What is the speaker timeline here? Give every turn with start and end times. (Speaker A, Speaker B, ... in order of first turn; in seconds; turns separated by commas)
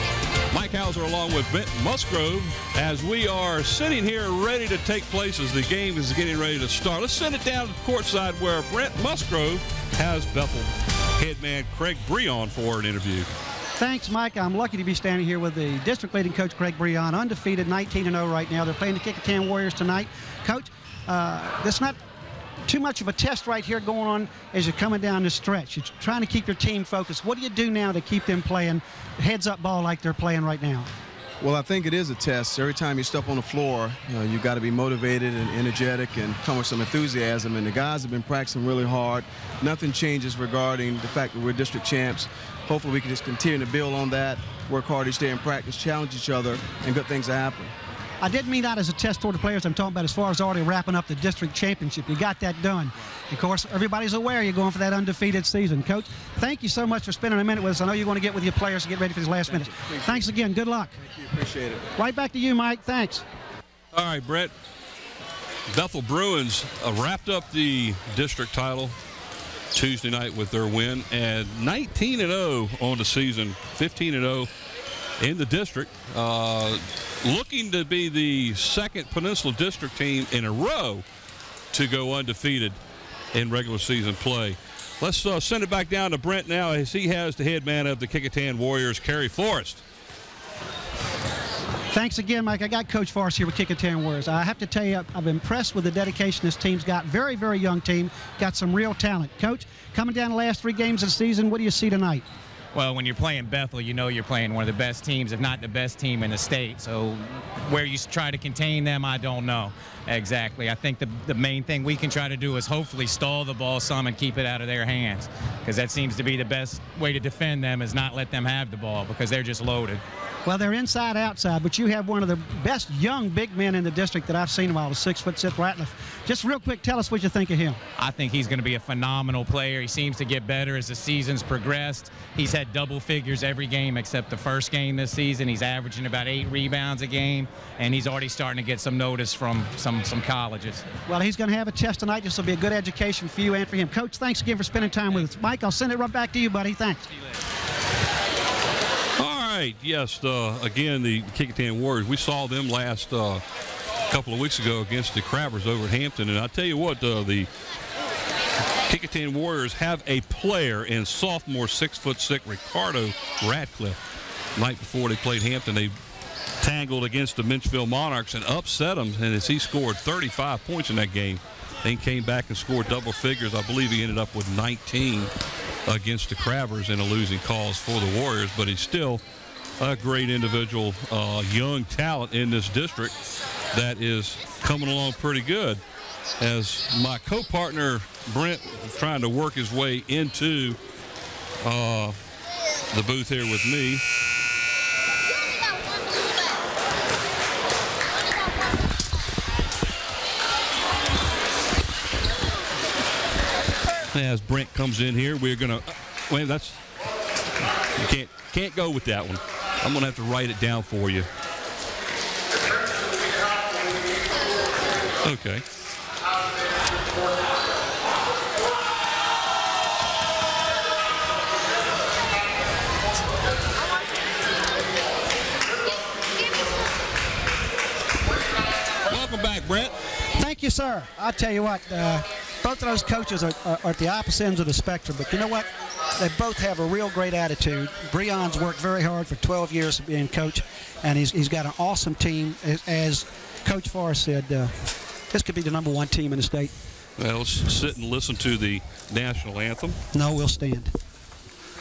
Speaker A: 0.5-13.3, Speaker B: 13.8-22.0, Speaker B: 22.6-30.9, Speaker C: 31.4-47.8, Speaker B: 48.2-61.0, Speaker C: 59.5-60.3, Speaker C: 61.0-61.9, Speaker B: 62.0-63.2, Speaker A: 63.9-64.5, Speaker A: 65.7-69.0, Speaker A: 69.7-74.5, Speaker A: 75.2-81.0, Speaker A: 81.7-82.8, Speaker A: 83.3-89.8, Speaker B: 91.9-102.2, Speaker D: 102.7-120.0, Speaker B: 120.5-127.8, Speaker D: 128.0-140.9, Speaker B: 141.1-147.1, Speaker A: 149.2-153.4, Speaker A: 154.1-157.5, Speaker A: 158.9-164.0, Speaker A: 164.6-165.9, Speaker A: 166.6-175.3, Speaker A: 175.9-179.2, Speaker A: 179.8-183.2, Speaker A: 183.7-185.8, Speaker A: 186.4-190.8, Speaker A: 191.6-192.2, Speaker A: 192.9-194.0, Speaker A: 204.1-206.9, Speaker A: 208.0-211.3, Speaker A: 215.2-215.7, Speaker A: 229.1-229.9, Speaker B: 230.3-246.7, Speaker A: 247.2-250.0, Speaker B: 250.1-250.9